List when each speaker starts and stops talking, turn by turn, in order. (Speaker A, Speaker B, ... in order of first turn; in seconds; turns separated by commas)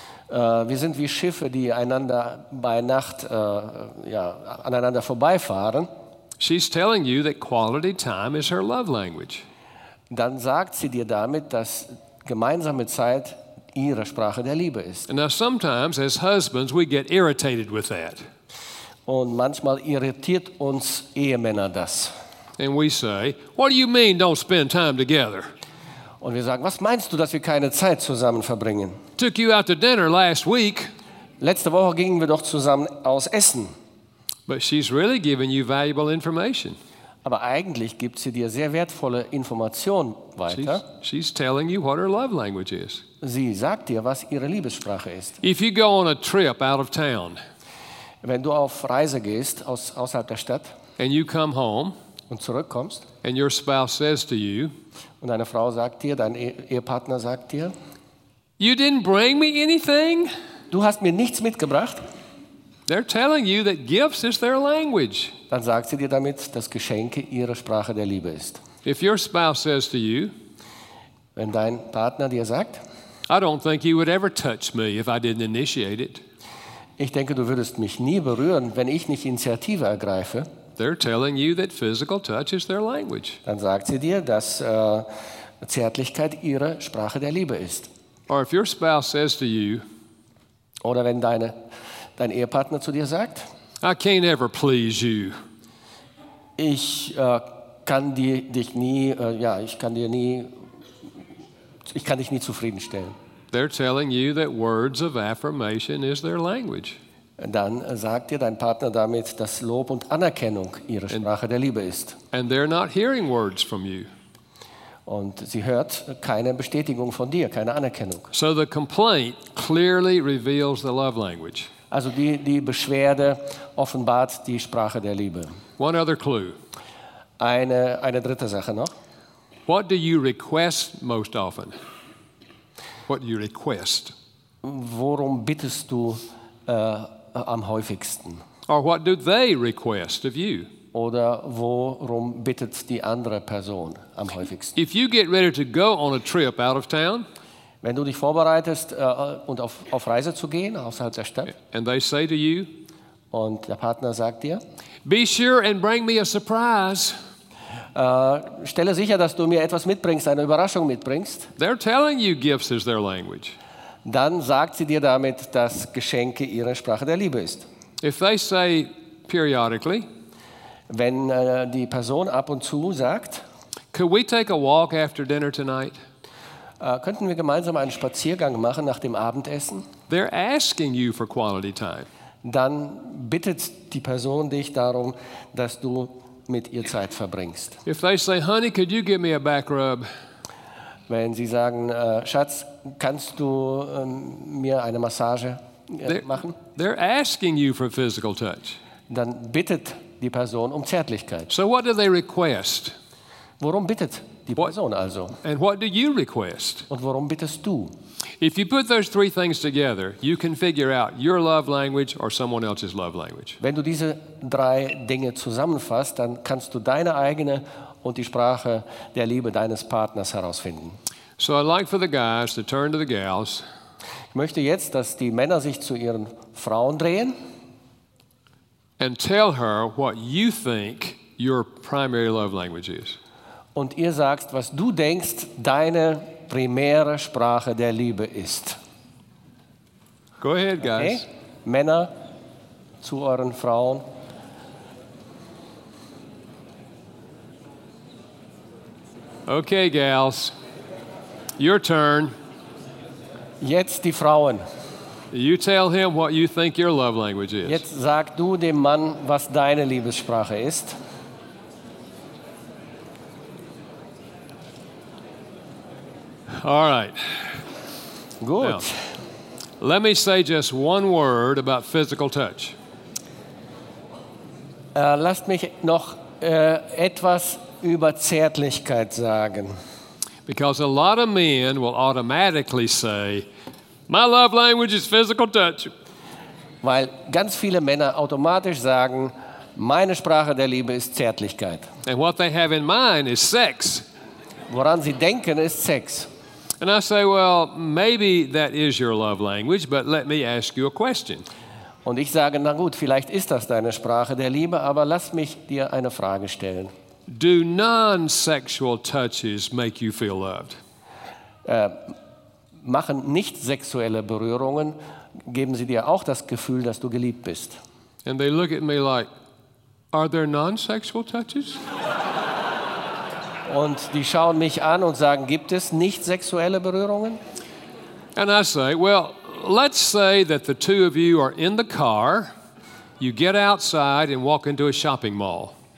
Speaker A: 0.3-5.9, Speaker B: 6.4-9.4, Speaker A: 10.1-15.1, Speaker B: 15.1-18.2, Speaker A: 19.1-22.1, Speaker B: 22.6-25.5, Speaker A: 26.2-29.0, Speaker B: 29.2-30.9, Speaker A: 31.4-33.7, Speaker B: 34.5-36.8, Speaker A: 37.2-40.8, Speaker B: 40.5-43.0, Speaker A: 43.2-45.4, Speaker B: 45.4-47.4, Speaker A: 48.2-50.7, Speaker B: 51.0-52.0, Speaker A: 52.3-53.1, Speaker B: 53.2-54.7, Speaker A: 55.2-57.7, Speaker B: 58.6-60.3, Speaker A: 60.7-62.0, Speaker B: 62.9-65.3, Speaker A: 65.5-68.6, Speaker B: 68.8-70.3, Speaker A: 71.4-72.8, Speaker B: 73.3-76.2, Speaker A: 77.0-80.5, Speaker B: 80.8-83.4, Speaker A: 83.5-85.1, Speaker A: 85.6-87.9, Speaker B: 88.3-89.8, Speaker A: 90.8-91.6, Speaker A: 92.2-93.5, Speaker B: 93.8-95.3, Speaker A: 96.6-100.5, Speaker A: 101.9-103.2, Speaker B: 103.5-107.0, Speaker A: 107.4-112.2, Speaker B: 112.3-114.1, Speaker A: 115.1-118.3, Speaker B: 118.3-121.7, Speaker A: 121.9-125.5, Speaker B: 125.8-126.6, Speaker A: 127.4-128.9, Speaker B: 129.7-131.8, Speaker B: 133.1-134.1, Speaker A: 134.6-138.4, Speaker B: 138.7-140.7, Speaker A: 140.9-144.8, Speaker B: 144.8-147.2, Speaker A: 147.8-151.5, Speaker B: 151.5-152.7, Speaker A: 153.3-154.6, Speaker B: 155.1-157.2, Speaker A: 157.9-161.5, Speaker B: 161.6-163.6, Speaker A: 164.1-167.7, Speaker B: 168.0-170.1, Speaker A: 170.9-173.4, Speaker B: 173.9-176.0, Speaker A: 176.8-179.8, Speaker B: 180.1-182.1, Speaker A: 182.4-187.8, Speaker B: 187.9-190.1, Speaker A: 191.1-196.6, Speaker B: 196.1-198.8, Speaker A: 199.1-201.5, Speaker B: 201.5-202.9, Speaker A: 203.6-205.4, Speaker B: 205.4-206.9, Speaker A: 206.9-207.9, Speaker B: 208.4-213.6, Speaker A: 213.6-221.0, Speaker B: 221.4-223.6, Speaker A: 224.3-227.4, Speaker B: 229.0-233.2, Speaker A: 233.8-238.8, Speaker B: 240.4-241.2, Speaker A: 240.9-242.1, Speaker A: 243.0-244.1, Speaker B: 249.5-250.6, Speaker B: 251.6-252.3, Speaker A: 253.6-254.6, Speaker B: 255.3-257.8, Speaker A: 257.6-261.0, Speaker B: 266.5-267.6, Speaker A: 268.4-269.0, Speaker B: 268.6-268.9, Speaker B: 269.8-272.8, Speaker A: 274.9-279.8, Speaker B: 280.5-283.5, Speaker B: 284.1-285.9, Speaker A: 286.8-291.9, Speaker B: 292.1-294.1, Speaker A: 294.7-296.3, Speaker B: 296.8-301.5, Speaker A: 302.1-306.9, Speaker B: 307.3-310.8, Speaker A: 311.6-312.1, Speaker A: 312.8-317.8, Speaker B: 318.2-319.3, Speaker B: 320.1-321.8, Speaker A: 323.7-327.4, Speaker B: 328.4-332.5, Speaker B: 333.2-335.8